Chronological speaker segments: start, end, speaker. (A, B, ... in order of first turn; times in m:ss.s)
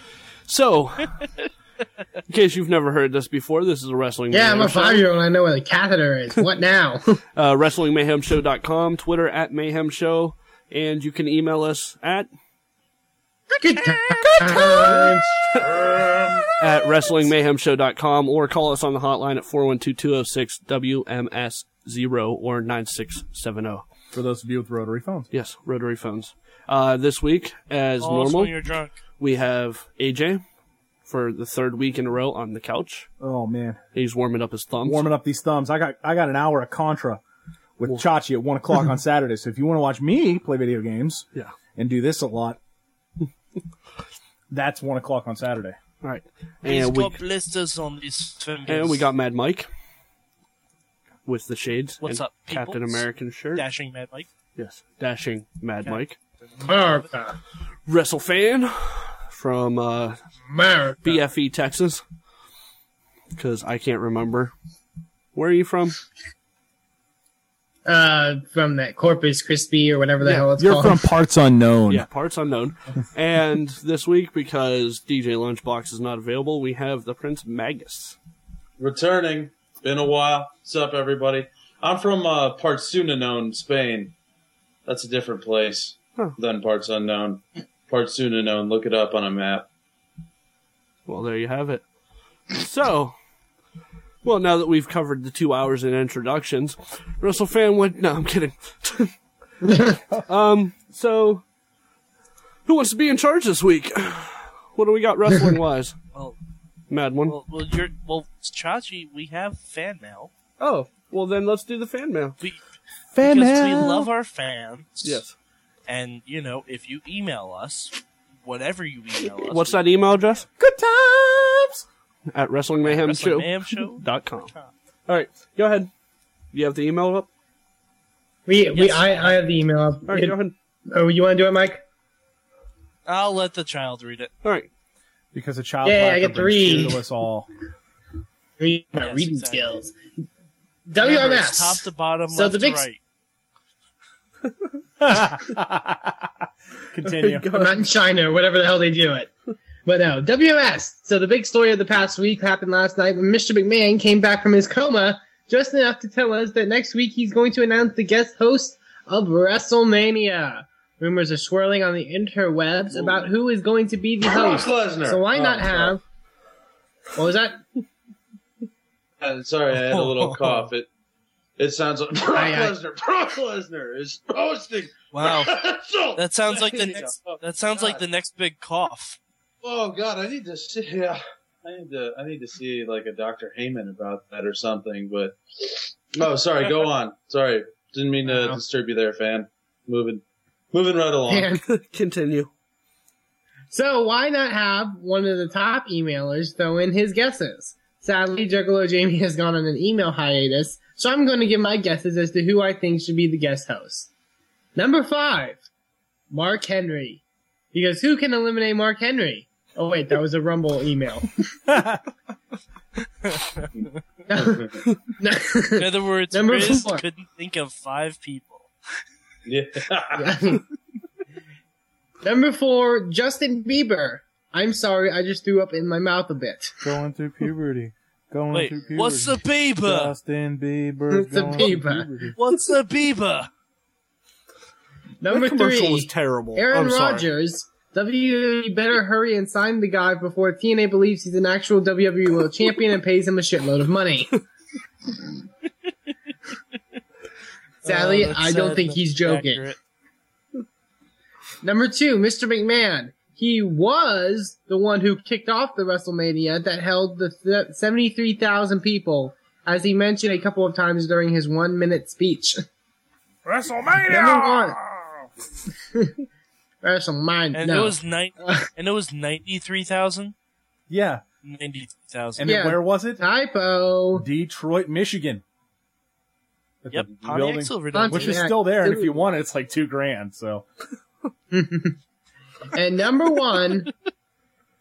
0:00.4-0:01.2 A
0:02.3-0:05.1 A
0:04.3-0:07.2 B
0:07.4-0:12.3 A
0:13.6-0:15.2 B
0:13.9-0:15.2 C
0:14.8-0:15.8 A
0:15.6-0:16.5 D
0:16.6-0:23.9 A
0:24.1-0:25.3 C
0:25.3-0:28.6 A
0:28.0-0:29.0 E
0:29.2-0:30.4 A
0:31.1-0:33.1 A
0:33.2-0:33.8 C
0:33.9-0:35.0 A
0:34.8-0:37.2 C
0:37.8-0:42.6 C
0:44.5-0:45.8 C
0:46.0-0:47.2 A
0:46.6-0:49.1 E
0:48.7-0:49.7 A
0:51.3-0:53.6 A
0:52.0-0:53.0 E
0:53.6-0:54.3 E
0:54.6-0:56.2 A
0:56.6-0:57.4 B
0:57.9-1:00.2 A
1:00.5-1:01.2 B
1:01.0-1:02.0 A
1:03.4-1:04.5 A
1:05.4-1:06.0 A
1:07.9-1:11.0 B
1:10.3-1:12.1 C
1:11.9-1:18.2 A
1:18.8-1:24.1 D
1:24.9-1:29.7 D
1:31.1-1:31.8 A
1:32.5-1:33.2 A
1:34.2-1:39.2 A
1:40.2-1:41.4 A
1:42.7-1:46.0 A
1:46.9-1:47.4 A
1:47.3-1:50.3 E
1:50.6-1:52.4 A
1:53.1-1:54.1 C
1:53.2-1:55.2 E
1:55.0-1:55.4 A
1:55.9-1:59.8 E
1:59.2-2:00.5 A
2:00.6-2:01.8 C
2:02.3-2:04.5 A
2:02.8-2:04.7 E
2:05.1-2:05.9 A
2:06.5-2:07.3 A
2:08.5-2:10.4 B
2:08.7-2:09.4 E
2:10.1-2:10.5 A
2:10.9-2:11.8 B
2:13.1-2:14.3 E
2:14.4-2:14.7 A
2:15.3-2:17.5 C
2:15.8-2:17.0 B
2:18.6-2:20.0 B
2:19.0-2:19.8 E
2:20.9-2:22.9 B
2:21.0-2:23.0 E
2:25.0-2:26.2 C
2:26.9-2:27.8 C
2:27.2-2:27.8 A
2:27.5-2:29.3 B
2:29.8-2:46.0 B
2:42.9-2:43.3 D
2:44.2-2:45.5 D
2:47.2-2:47.6 B
2:49.2-2:50.9 D
2:49.7-2:50.7 E
2:51.6-2:58.0 D
2:52.2-2:52.8 B
2:55.1-2:55.6 E
2:56.2-2:59.2 E
2:59.6-3:11.5 D
3:08.2-3:08.6 B
3:11.3-3:11.6 B
3:11.7-3:12.5 A
3:13.7-3:24.1 B
3:24.8-3:25.6 B
3:26.3-3:27.2 B
3:27.7-3:31.4 B
3:31.7-3:32.0 C
3:34.3-3:37.0 B
3:34.3-3:34.7 D
3:35.8-3:38.7 E
3:39.5-3:40.5 D
3:40.2-3:40.6 B
3:42.2-3:46.8 B
3:46.8-3:52.4 C
3:48.5-3:50.1 E
3:51.1-3:52.1 B
3:52.4-3:53.5 E
3:55.2-4:04.4 B
3:55.3-3:57.3 A
4:07.8-4:09.6 B
4:07.8-4:09.8 E
4:11.6-4:22.6 B
4:23.5-4:25.1 C
4:24.0-4:24.8 B
4:26.8-4:28.7 B
4:27.5-4:30.3 E
4:30.9-4:31.2 C
4:31.4-4:32.5 E
4:32.4-4:33.2 C
4:32.5-4:34.3 B
4:34.2-4:35.4 C
4:36.8-4:40.7 C
4:36.9-4:38.4 E
4:37.9-4:39.2 B
4:41.5-4:42.0 B
4:42.7-4:43.9 B